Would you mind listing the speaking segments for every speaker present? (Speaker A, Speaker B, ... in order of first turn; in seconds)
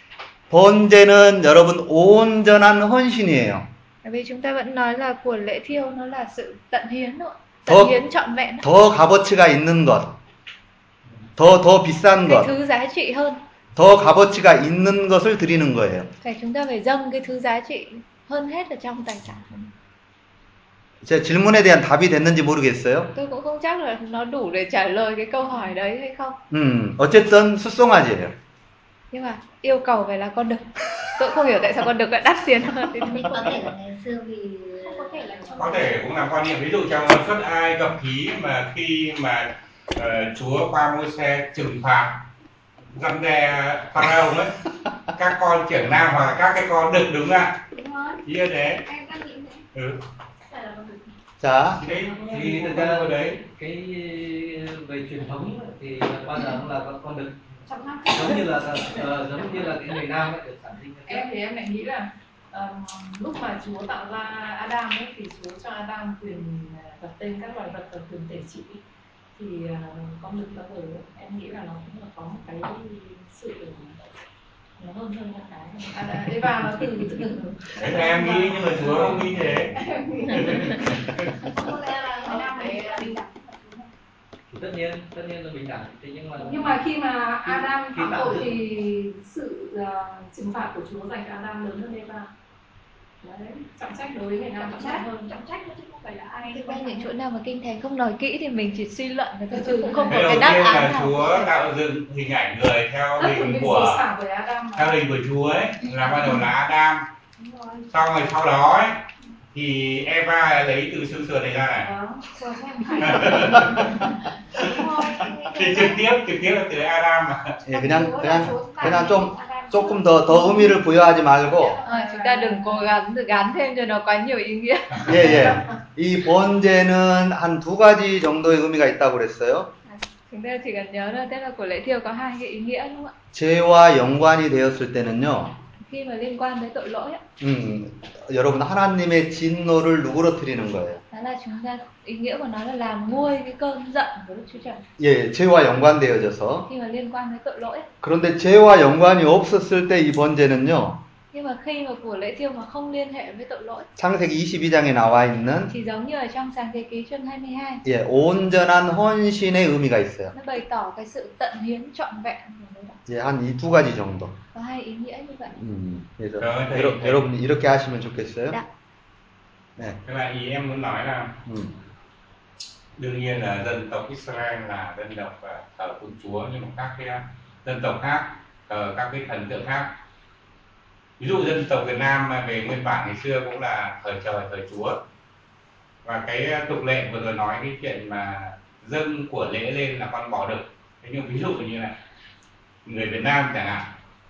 Speaker A: 0.5-3.7, 7.7-8.0, 8.6-10.2, 11.4-12.5, 13.7-16.1, 21.0-23.1, 26.5-28.3, 51.4-51.8, 117.7-121.8, 125.0-129.7, 133.3-135.6, 137.4-141.0, 145.0-146.7, 148.0-151.0, 154.0-155.7, 157.8-160.3, 163.1-164.4, 165.6-168.6, 171.4-171.7
Speaker B: 4.0-8.7, 12.2-13.4, 16.2-19.7, 23.1-26.4, 29.1-33.7, 96.5-101.5, 121.8-125.1, 129.9-133.1, 135.8-137.2, 141.1-144.8, 146.7-147.9, 151.3-153.9, 155.7-157.8, 160.3-163.0, 164.5-165.6
Speaker C: 33.2-35.6, 47.7-48.2, 48.9-49.6, 50.5-50.9, 58.0-58.4, 81.4-83.9, 94.5-97.1, 112.3-113.9, 114.5-116.0, 117.6-120.7
Speaker D: 34.9-35.9, 61.1-68.8, 69.4-73.9, 75.8-79.2, 79.8-80.8, 82.3-83.1, 86.4-92.3, 93.2-95.1, 99.6-100.0, 103.3-104.9, 111.9-112.2, 112.9-113.3, 122.1-122.8
Speaker E: 35.5-42.2, 42.9-44.5, 45.1-47.6, 48.2-48.8, 49.7-50.0, 51.8-53.4, 77.7-79.8, 80.3-81.4, 100.1-104.0, 104.8-107.1, 107.9-111.9, 113.0-114.8, 115.5-117.6, 125.0-125.6, 166.4-167.2, 170.0-171.3, 173.0-179.9, 181.2-185.0, 186.0-192.0, 192.8-193.9
Speaker F: 52.3-61.3, 84.5-86.9, 87.4-88.6